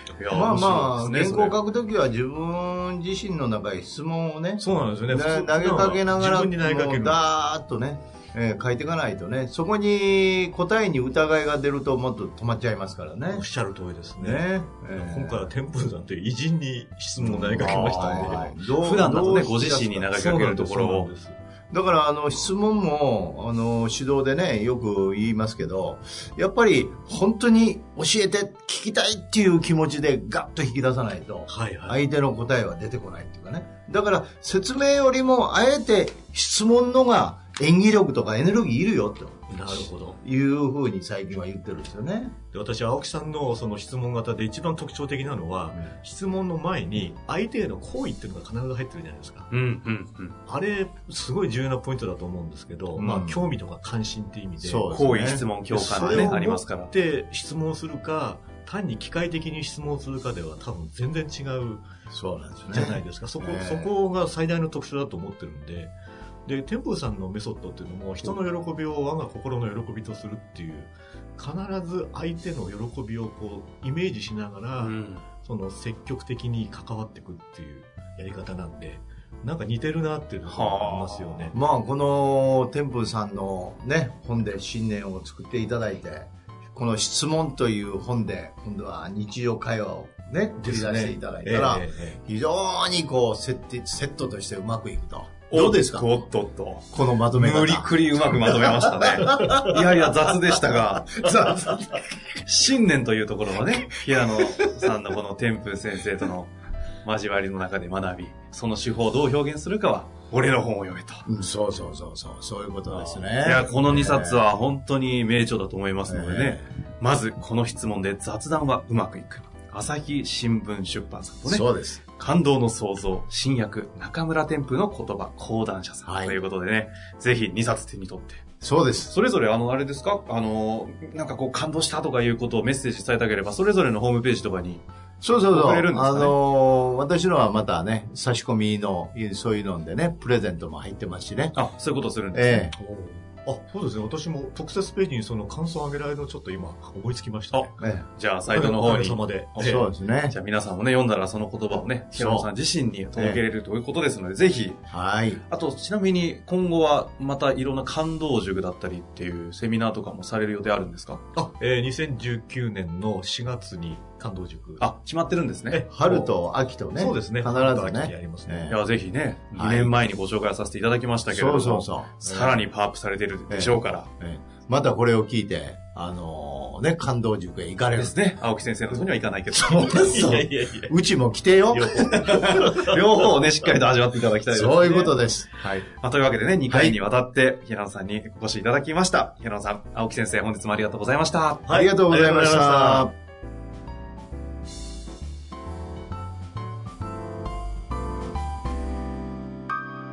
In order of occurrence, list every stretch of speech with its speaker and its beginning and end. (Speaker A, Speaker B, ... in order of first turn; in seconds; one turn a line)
Speaker A: 0.2-1.6
Speaker B: 0.3-13.5
Speaker C: 4.6-7.2
Speaker C: 13.3-18.6
Speaker B: 14.2-15.5
Speaker B: 17.2-20.1
Speaker A: 17.6-21.1
Speaker C: 20.1-21.4
Speaker B: 21.7-42.4
Speaker C: 31.5-32.0
Speaker C: 39.5-40.2
Speaker C: 42.5-49.5
Speaker A: 49.5-50.4
Speaker C: 50.5-54.9
Speaker B: 53.0-53.5
Speaker B: 54.6-56.3
Speaker A: 54.9-56.9
Speaker C: 55.7-61.9
Speaker B: 62.1-63.9
Speaker C: 62.7-65.9
Speaker C: 66.5-81.6
Speaker A: 74.8-75.3
Speaker A: 80.5-81.5
Speaker B: 81.5-96.2
Speaker C: 90.6-92.2
Speaker A: 95.5-101.2
Speaker B: 96.9-99.8
Speaker B: 100.8-102.0
Speaker A: 102.5-106.5
Speaker A: 107.0-111.2
Speaker B: 111.3-114.4
Speaker A: 112.9-128.5
Speaker B: 116.0-116.7
Speaker B: 121.5-122.0
Speaker B: 126.1-126.4
Speaker B: 128.6-129.1
Speaker A: 129.1-134.8
Speaker B: 135.2-141.6
Speaker A: 135.4-136.3
Speaker A: 141.6-142.7
Speaker B: 142.3-142.8
Speaker C: 142.7-147.8
Speaker A: 147.5-149.8
Speaker B: 147.8-148.1
Speaker C: 148.5-149.8
Speaker B: 149.6-150.4
Speaker A: 150.3-154.8
Speaker B: 152.1-152.5
Speaker B: 153.2-153.4
Speaker B: 154.9-155.4
Speaker A: 155.5-161.2
Speaker C: 161.3-164.9
Speaker A: 164.8-165.8
Speaker C: 165.7-166.4
Speaker B: 165.9-168.8
Speaker C: 166.9-168.8
Speaker A: 168.7-174.1
Speaker B: 169.6-169.9
Speaker B: 171.3-172.3
Speaker B: 173.5-178.1
Speaker A: 178.0-180.2
Speaker B: 179.5-182.6
Speaker C: 179.9-180.9
Speaker C: 181.7-183.3
Speaker A: 182.2-191.7
Speaker B: 184.5-185.5
Speaker B: 186.7-187.0
Speaker C: 191.7-193.1
Speaker B: 191.7-193.1